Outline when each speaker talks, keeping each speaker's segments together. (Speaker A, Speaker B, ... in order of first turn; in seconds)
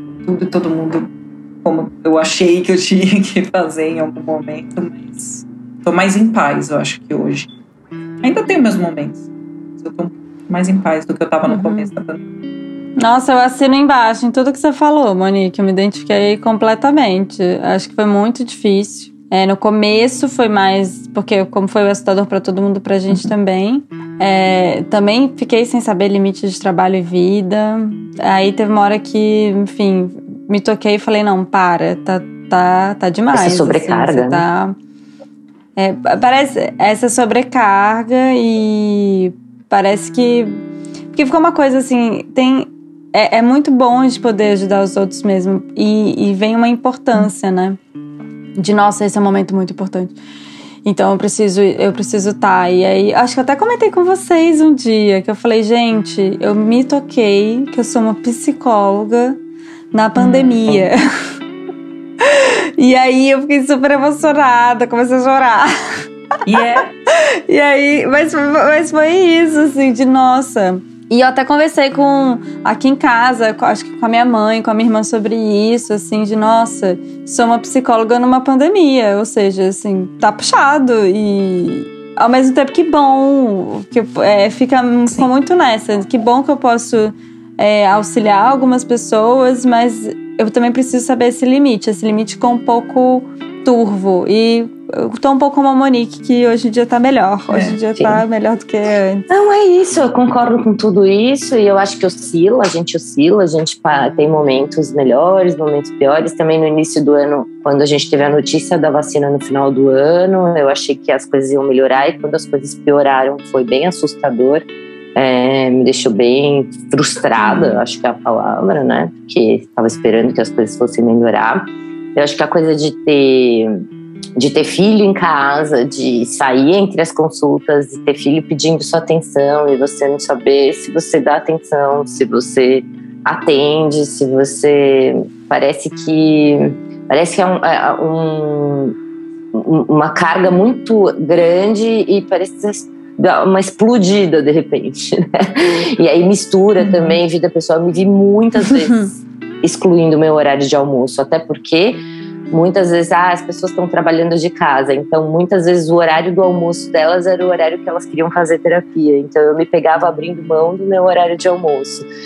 Speaker A: 0.2-1.1, 1.6-7.5, 8.2-9.3, 9.8-12.2, 60.2-60.9, 66.5-66.9, 97.5-97.8, 146.8-147.2
Speaker B: 11.5-11.9, 13.0-34.8, 35.8-40.6, 41.1-47.8, 48.6-50.1, 50.8-59.4, 59.9-61.3, 62.2-66.0, 67.1-99.3, 117.4-117.8
Speaker C: 33.3-34.4, 98.0-98.2, 99.3-123.8, 124.4-138.9, 139.5-162.1